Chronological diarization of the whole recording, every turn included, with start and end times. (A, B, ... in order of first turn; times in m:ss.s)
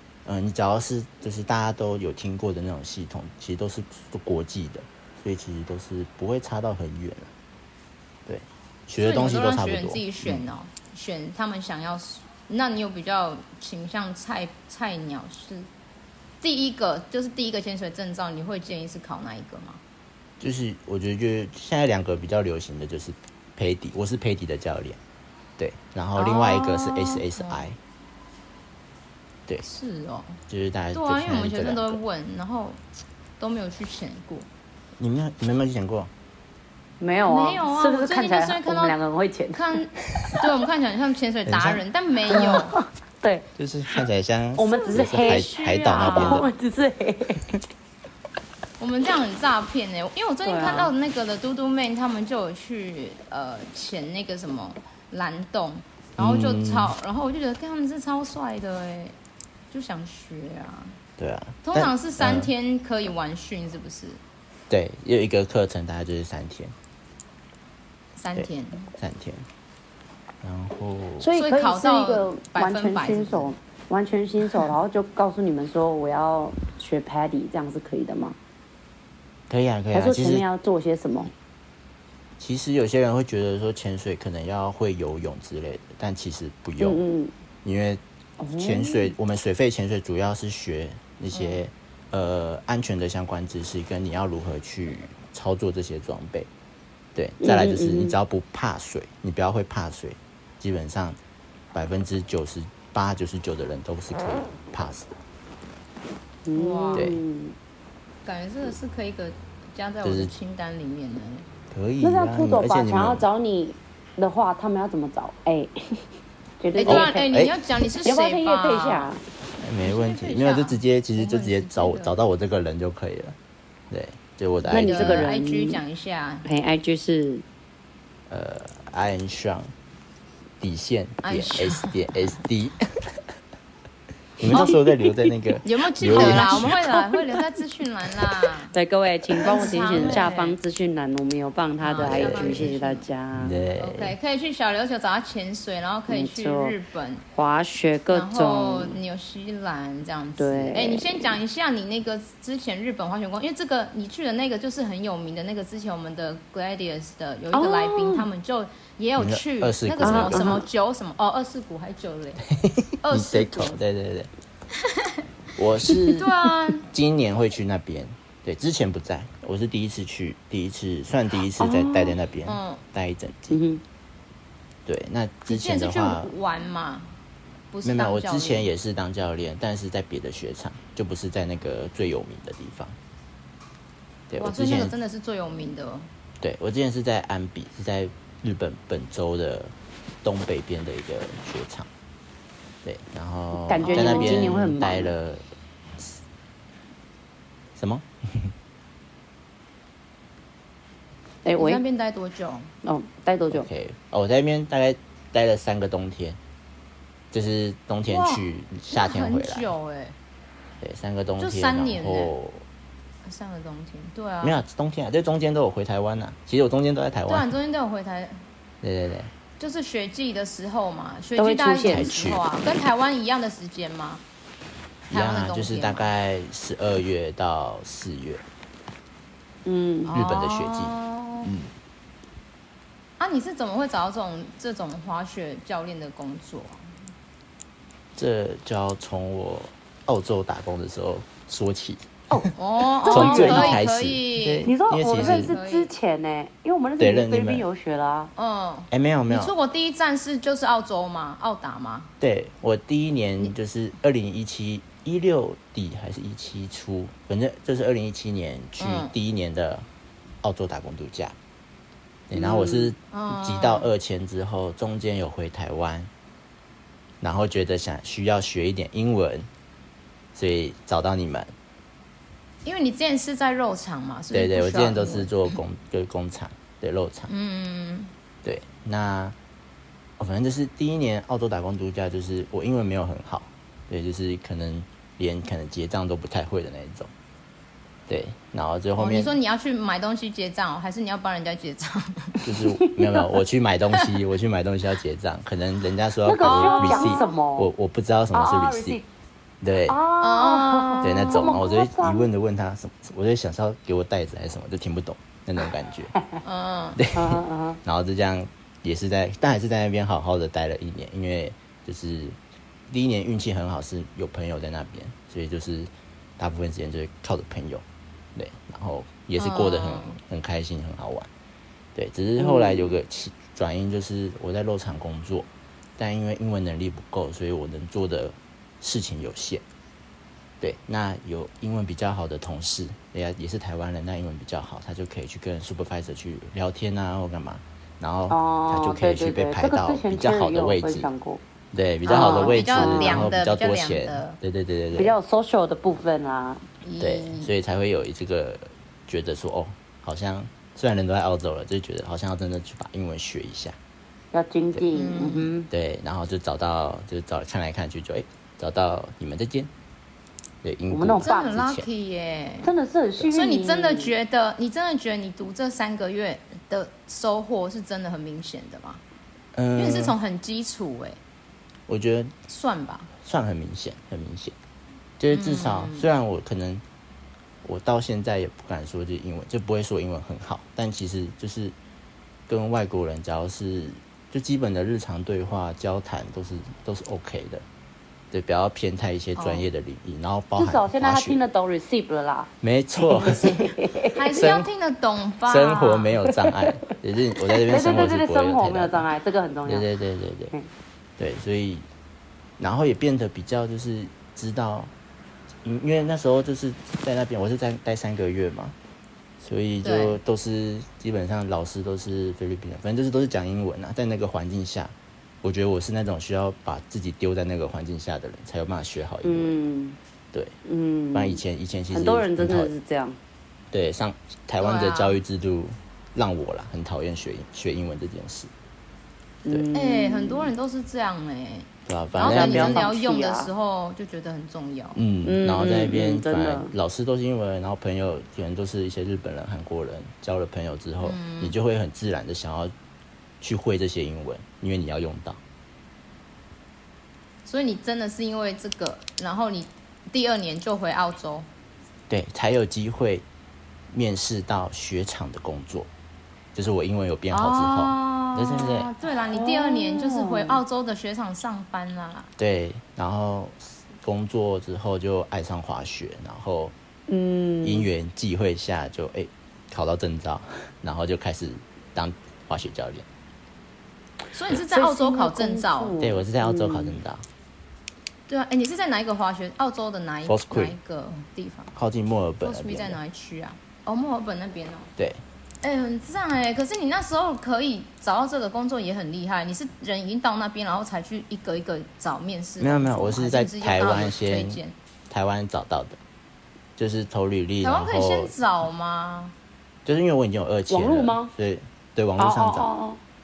0:00.2-0:07.3 A
0:08.3-0:10.5 A
0:09.0-0:15.7 B
0:16.4-0:19.8 B
0:20.4-0:25.0 A
0:25.6-0:27.8 A
0:26.2-0:27.7 B
0:29.6-0:30.4 B
0:30.5-0:32.0 A
0:30.9-0:32.8 B
0:33.4-0:34.5 B
0:35.0-0:36.1 A
0:37.0-0:40.5 C
0:37.3-0:39.0 B
0:39.5-0:42.8 B
0:41.5-0:41.8 A
0:42.3-0:43.5 C
0:43.6-0:46.5 A
0:44.6-0:47.5 C
0:44.7-0:46.5 B
0:48.8-0:59.2 B
0:50.4-0:50.9 C
0:56.2-0:56.9 A
0:59.7-1:01.0 B
1:01.2-1:02.5 A
1:01.6-1:04.2 B
1:04.7-1:06.8 A
1:08.2-1:08.9 B
1:08.4-1:09.5 A
1:10.4-1:11.3 A
1:11.2-1:18.4 C
1:11.3-1:13.5 B
1:19.5-1:20.4 A
1:19.9-1:21.3 C
1:22.4-1:27.0 A
1:26.8-1:27.3 C
1:27.6-1:28.0 A
1:28.4-1:29.2 C
1:28.5-1:36.5 A
1:31.3-1:31.6 B
1:37.2-1:41.2 A
1:37.4-1:38.2 C
1:41.7-1:45.1 A
1:46.5-1:47.5 C
1:46.6-1:47.1 B
1:46.9-1:47.2 A
1:48.2-1:51.5 B
1:50.0-1:50.3 A
1:51.7-1:53.2 A
1:52.0-1:56.1 C
1:56.6-1:57.4 C
1:56.8-1:59.1 B
1:56.8-1:57.5 A
1:58.0-1:59.2 C
1:59.6-2:03.4 A
1:59.8-2:02.2 B
2:03.9-2:05.3 A
2:04.7-2:05.8 C
2:04.8-2:06.4 B
2:06.4-2:07.4 C
2:08.3-2:09.7 A
2:10.6-2:13.2 A
2:11.2-2:11.9 B
2:14.4-2:16.9 A
2:14.5-2:15.3 C
2:15.6-2:18.7 B
2:16.0-2:17.4 C
2:18.7-2:23.6 C
2:19.4-2:20.6 B
2:19.5-2:20.3 A
2:21.8-2:23.0 B
2:22.0-2:22.7 A
2:23.3-2:24.2 A
2:23.8-2:27.2 B
2:26.1-2:26.8 C
2:27.3-2:29.0 C
2:28.1-2:42.4 B
2:30.4-2:31.2 C
2:37.5-2:38.3 C
2:39.2-2:40.6 A
2:40.0-2:40.7 C
2:42.5-2:44.3 A
2:43.0-2:43.7 B
2:44.8-2:45.2 B
2:45.6-2:53.6 A
2:46.0-2:46.9 B
2:51.5-2:52.2 C
2:52.5-2:52.8 B
2:53.5-2:53.8 C
2:54.9-2:56.3 A
2:55.5-2:57.1 B
2:57.7-2:58.7 B
2:57.8-3:03.0 A
3:04.3-3:04.9 A
3:04.4-3:06.1 B
3:06.4-3:09.7 A
3:10.2-3:11.9 A
3:12.8-3:15.4 A
3:13.6-3:15.1 C
3:13.8-3:14.5 B
3:17.8-3:18.5 A
3:21.4-3:21.8 C
3:21.6-3:22.7 B
3:22.8-3:23.7 C
3:23.5-3:26.4 A
3:27.3-3:29.7 A
3:28.1-3:30.2 B
3:30.8-3:32.6 A
3:31.4-3:32.3 B
3:33.2-3:34.6 B
3:34.4-3:37.5 A
3:37.3-3:38.4 B
3:38.8-3:39.3 A
3:39.6-3:44.2 B
3:41.4-3:42.1 C
3:41.8-3:42.5 A
3:45.1-3:46.1 B
3:45.1-3:48.4 A
3:49.7-3:50.1 C
3:50.1-3:51.5 B
3:50.1-3:51.7 A
3:53.2-3:56.8 B
3:58.2-4:02.5 A
4:02.3-4:03.8 C
4:02.6-4:05.9 B
4:03.0-4:05.6 A
4:04.6-4:08.3 C
4:07.0-4:07.7 A
4:08.4-4:12.1 B
4:08.9-4:09.5 A
4:12.2-4:19.9 A
4:18.8-4:19.1 B
4:20.4-4:21.4 A
4:22.3-4:26.1 A
4:22.4-4:22.8 C
4:22.5-4:23.9 B
4:27.2-4:29.5 A
4:30.4-4:31.5 A
4:32.6-4:35.6 B
4:34.3-4:37.3 A
4:37.3-4:38.1 B
4:38.4-4:39.4 A
4:40.2-4:47.1 A
4:48.1-4:49.4 A
4:49.0-4:52.4 B
4:52.4-4:59.0 A
4:52.8-4:53.4 C
4:56.2-4:57.7 C
4:56.4-4:57.3 B
4:58.3-4:59.0 C
4:59.6-5:00.0 A
4:59.9-5:02.3 C
5:00.2-5:01.6 B
5:01.0-5:06.1 A
5:06.4-5:07.0 B
5:07.0-5:12.4 A
5:07.1-5:07.8 C
5:12.9-5:17.8 A
5:18.4-5:21.3 A
5:19.4-5:20.2 B
5:22.0-5:29.6 A
5:22.4-5:22.9 C
5:30.6-5:41.1 A
5:38.3-5:41.4 C
5:41.7-5:45.2 A
5:42.1-5:43.3 C
5:42.1-5:44.4 B
5:44.9-5:46.6 C
5:46.8-5:47.5 B
5:47.0-5:53.8 A
5:54.3-5:55.7 C
5:54.9-5:55.6 B
5:55.7-5:59.7 A
6:00.6-6:01.9 A
6:00.9-6:01.5 C
6:01.2-6:02.7 B
6:02.6-6:04.2 C
6:03.2-6:09.0 B
6:09.6-6:10.2 A
6:09.8-6:11.2 B
6:11.9-6:12.4 A
6:12.5-6:13.1 B
6:13.2-6:14.6 A
6:15.2-6:16.8 A
6:15.3-6:16.1 B
6:17.6-6:21.8 A
6:22.5-6:27.6 A
6:28.3-6:31.4 A
6:30.6-6:34.5 C
6:32.6-6:33.7 A
6:34.1-6:36.2 B
6:34.4-6:34.7 A
6:35.5-6:39.1 A
6:36.4-6:36.6 C
6:37.5-6:39.9 C
6:39.7-6:40.5 A
6:41.2-6:41.9 A
6:42.6-6:44.9 A
6:45.6-6:48.8 A
6:49.4-6:59.6 A
6:49.8-6:50.2 B
6:59.2-7:00.0 C
7:00.6-7:03.2 C
7:01.1-7:02.7 A
7:03.7-7:08.5 A
7:04.6-7:05.2 B
7:09.4-7:10.5 C
7:09.7-7:15.0 B
7:11.9-7:12.8 A
7:12.2-7:13.5 C
7:15.0-7:22.7 A
7:15.2-7:16.7 C
7:21.0-7:21.6 B
7:23.4-7:25.4 A
7:27.4-7:31.5 B
7:32.1-7:33.2 A
7:33.9-7:35.9 A
7:36.5-7:38.9 A
7:37.3-7:42.3 B
7:39.1-7:40.6 C
7:42.4-7:46.7 A
7:47.1-7:47.9 C
7:47.6-7:53.1 A
7:54.3-7:56.0 B
7:54.5-7:57.0 C
7:56.0-7:57.3 A
7:58.3-8:01.7 B
8:00.3-8:00.8 A
8:01.8-8:03.0 A
8:02.4-8:04.9 B
8:05.0-8:05.2 A
8:05.6-8:14.7 B
8:12.6-8:16.0 A
8:16.8-8:18.3 A
8:17.6-8:19.3 B
8:19.8-8:22.7 A
8:20.7-8:21.3 C
8:22.2-8:23.0 C